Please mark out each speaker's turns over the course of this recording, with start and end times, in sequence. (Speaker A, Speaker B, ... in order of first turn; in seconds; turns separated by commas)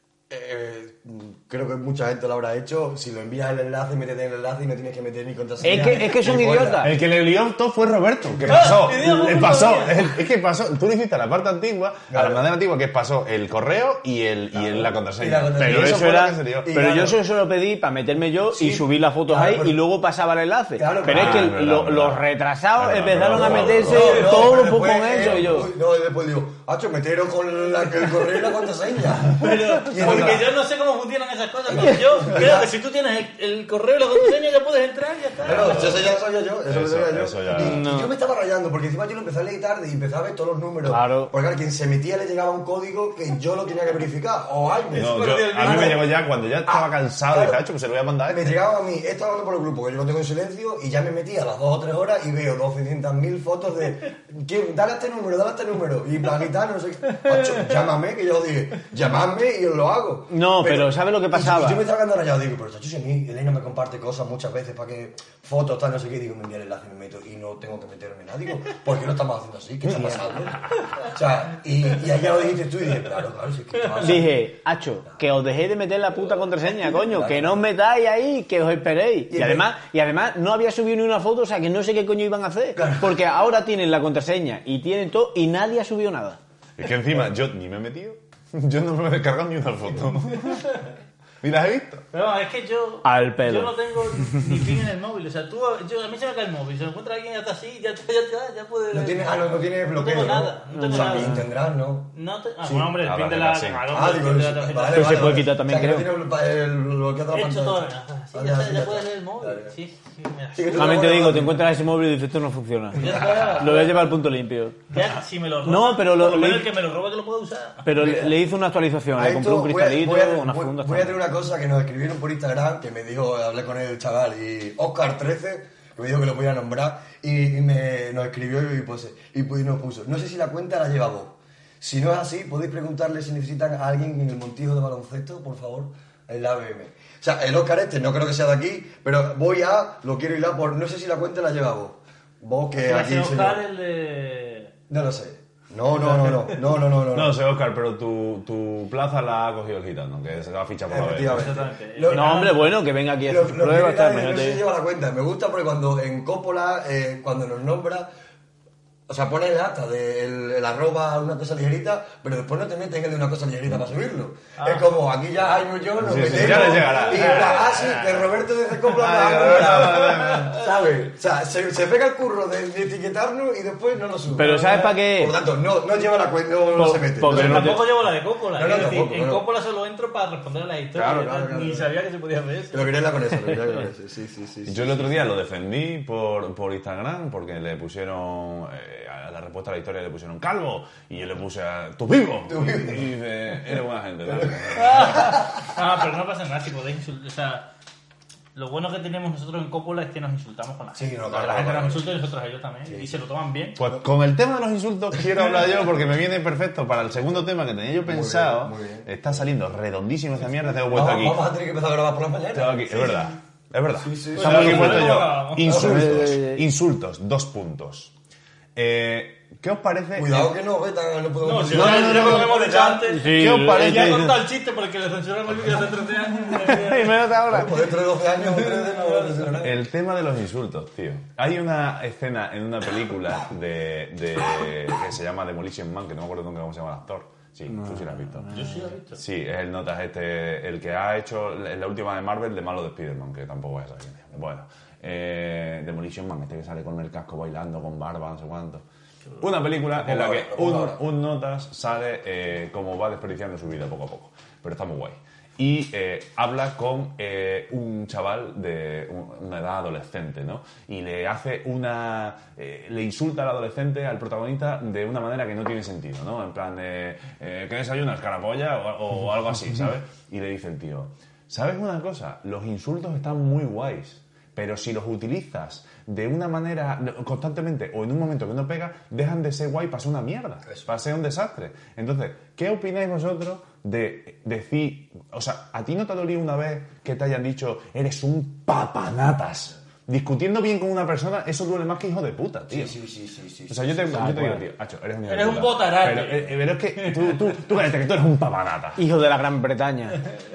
Speaker A: 0.3-6.9, Speaker B: 5.6-6.9, Speaker C: 6.8-16.9, Speaker A: 8.3-8.8, Speaker D: 8.5-10.2, Speaker A: 12.1-12.5, Speaker A: 14.6-17.2, Speaker B: 15.6-25.7, Speaker A: 18.5-19.8, Speaker A: 20.8-21.6, Speaker C: 21.1-22.2, Speaker C: 22.8-24.6, Speaker A: 23.3-30.5, Speaker C: 25.1-25.7, Speaker D: 29.3-36.0, Speaker A: 31.7-32.7, Speaker C: 35.4-36.1, Speaker A: 35.4-46.1, Speaker C: 36.6-37.9, Speaker B: 37.5-38.1, Speaker B: 40.9-41.3, Speaker D: 44.9-46.1, Speaker C: 45.0-48.6, Speaker A: 46.7-47.6, Speaker A: 48.3-74.4, Speaker B: 60.3-61.8, Speaker C: 69.9-70.5, Speaker B: 69.9-70.2, Speaker B: 74.0-86.4, Speaker A: 76.8-77.6, Speaker A: 79.3-79.7, Speaker A: 82.8-83.2, Speaker C: 86.8-90.8, Speaker C: 91.4-92.1, Speaker D: 92.1-101.5, Speaker B: 93.0-93.7, Speaker A: 98.9-103.0, Speaker B: 100.8-101.4, Speaker D: 102.1-105.4, Speaker C: 103.0-103.9, Speaker A: 103.9-109.8, Speaker B: 104.9-106.1, Speaker D: 107.3-111.1, Speaker A: 110.5-111.6, Speaker B: 110.7-114.8, Speaker D: 113.0-114.0, Speaker A: 113.0-113.9, Speaker C: 113.2-113.7, Speaker D: 114.9-117.9, Speaker B: 115.7-116.7, Speaker B: 117.8-121.2, Speaker A: 118.0-118.3, Speaker A: 119.1-143.6, Speaker D: 142.8-144.7, Speaker A: 144.9-147.4, Speaker D: 146.0-146.5, Speaker C: 147.1-151.6, Speaker A: 150.9-152.6, Speaker D: 151.3-152.6, Speaker B: 152.1-154.6, Speaker A: 153.3-158.1, Speaker A: 159.1-178.0, Speaker D: 164.6-164.9, Speaker C: 166.0-168.1, Speaker D: 166.3-167.9, Speaker C: 168.9-170.6, Speaker D: 169.7-170.6, Speaker B: 174.3-175.3, Speaker B: 176.8-177.9, Speaker D: 177.3-182.9, Speaker A: 178.5-179.5, Speaker A: 180.9-181.9, Speaker A: 182.7-185.3, Speaker C: 184.7-195.4, Speaker A: 192.5-193.1, Speaker A: 194.3-195.3, Speaker D: 194.7-197.7, Speaker D: 198.6-203.8, Speaker A: 200.9-202.1, Speaker A: 202.9-203.2, Speaker C: 203.8-211.5, Speaker A: 208.1-209.1, Speaker A: 210.9-213.2, Speaker C: 212.5-218.1, Speaker A: 214.0-216.2, Speaker D: 214.3-215.8, Speaker B: 215.7-216.6, Speaker C: 218.8-220.6, Speaker A: 220.2-223.2, Speaker D: 221.4-227.2, Speaker C: 221.7-222.5, Speaker B: 223.1-224.4, Speaker C: 223.3-224.4, Speaker B: 226.6-227.8, Speaker A: 227.5-229.8, Speaker D: 228.7-229.5, Speaker C: 229.6-238.6, Speaker B: 237.7-238.7, Speaker D: 238.5-239.2, Speaker C: 239.1-248.8, Speaker C: 249.4-293.0, Speaker A: 249.9-251.0, Speaker A: 292.7-294.4, Speaker C: 293.7-299.0, Speaker B: 294.1-294.6, Speaker D: 295.3-297.4, Speaker B: 299.0-300.3